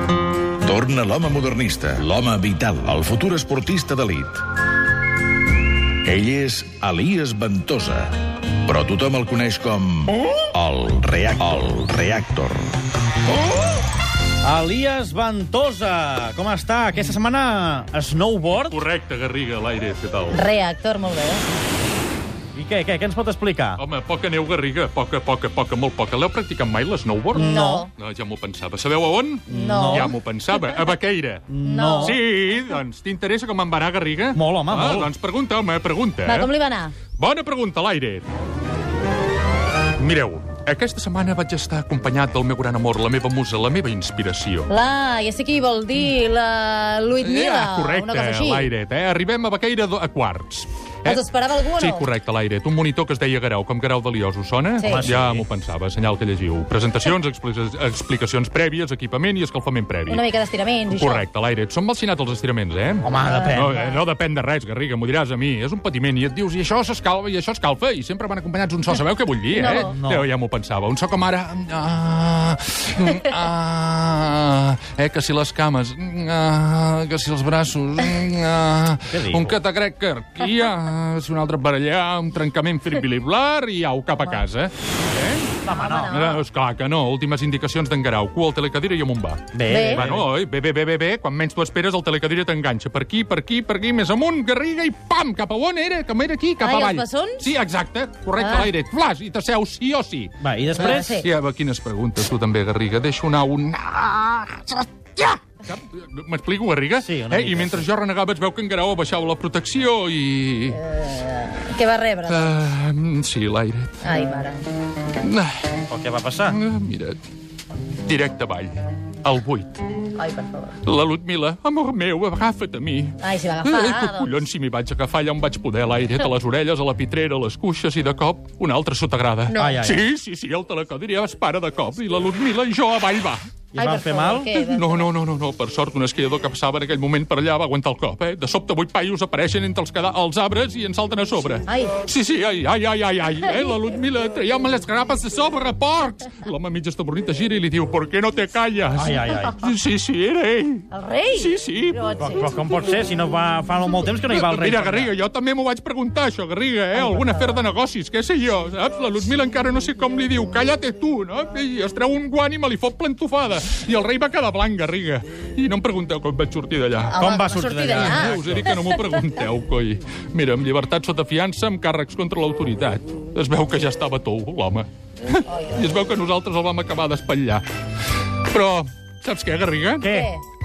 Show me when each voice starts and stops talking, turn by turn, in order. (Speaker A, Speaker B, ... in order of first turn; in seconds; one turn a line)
Speaker A: 0.6-4.5
Speaker A: 6.0-12.7
Speaker B: 14.4-18.8
Speaker C: 18.6-20.5
Speaker D: 20.3-21.4
Speaker B: 22.6-23.8
Speaker C: 23.8-31.5
Speaker D: 27.3-27.9
Speaker B: 27.4-27.8
Speaker B: 29.5-30.1
Speaker D: 29.5-30.2
Speaker B: 31.5-32.2
Speaker D: 31.6-32.2
Speaker C: 32.0-36.5
Speaker B: 34.3-35.1
Speaker D: 36.2-37.0
Speaker C: 37.2-38.3
Speaker C: 40.0-44.7
Speaker D: 44.7-48.7
Speaker C: 47.2-51.2
Speaker D: 51.0-52.0
Speaker C: 51.8-60.3
Speaker D: 54.8-55.1
Speaker B: 54.9-55.5
Speaker D: 60.1-61.2
Speaker C: 60.9-110.8
Speaker B: 63.0-63.8
Speaker D: 63.2-64.0
Speaker D: 69.5-69.9
Speaker B: 69.8-70.2
Speaker B: 79.1-79.6
Speaker B: 85.6-86.2
Speaker D: 85.7-86.4
Speaker B: 89.5-90.3
Speaker D: 89.7-90.1
Speaker D: 96.6-97.4
Speaker D: 98.4-98.7
Speaker B: 100.4-101.1
Speaker D: 100.8-101.3
Speaker B: 107.0-107.8
Speaker D: 110.7-112.5
Speaker C: 112.3-114.0
Speaker D: 114.0-114.6
Speaker C: 115.2-115.7
Speaker B: 115.9-116.6
Speaker C: 116.5-117.2
Speaker C: 118.0-119.8
Speaker D: 120.2-120.8
Speaker C: 120.8-133.4
Speaker D: 123.2-124.4
Speaker D: 129.5-129.8
Speaker B: 129.6-130.0
Speaker B: 133.8-134.5
Speaker D: 133.8-135.1
Speaker C: 134.5-152.5
Speaker D: 141.7-142.0
Speaker B: 148.9-149.6
Speaker D: 150.9-152.5
Speaker B: 152.2-155.1
Speaker C: 154.3-167.2
Speaker D: 167.1-169.1
Speaker B: 167.2-168.8
Speaker C: 167.8-177.7
Speaker D: 175.5-175.9
Speaker C: 178.3-180.1
Speaker B: 180.0-180.3
Speaker D: 180.0-180.4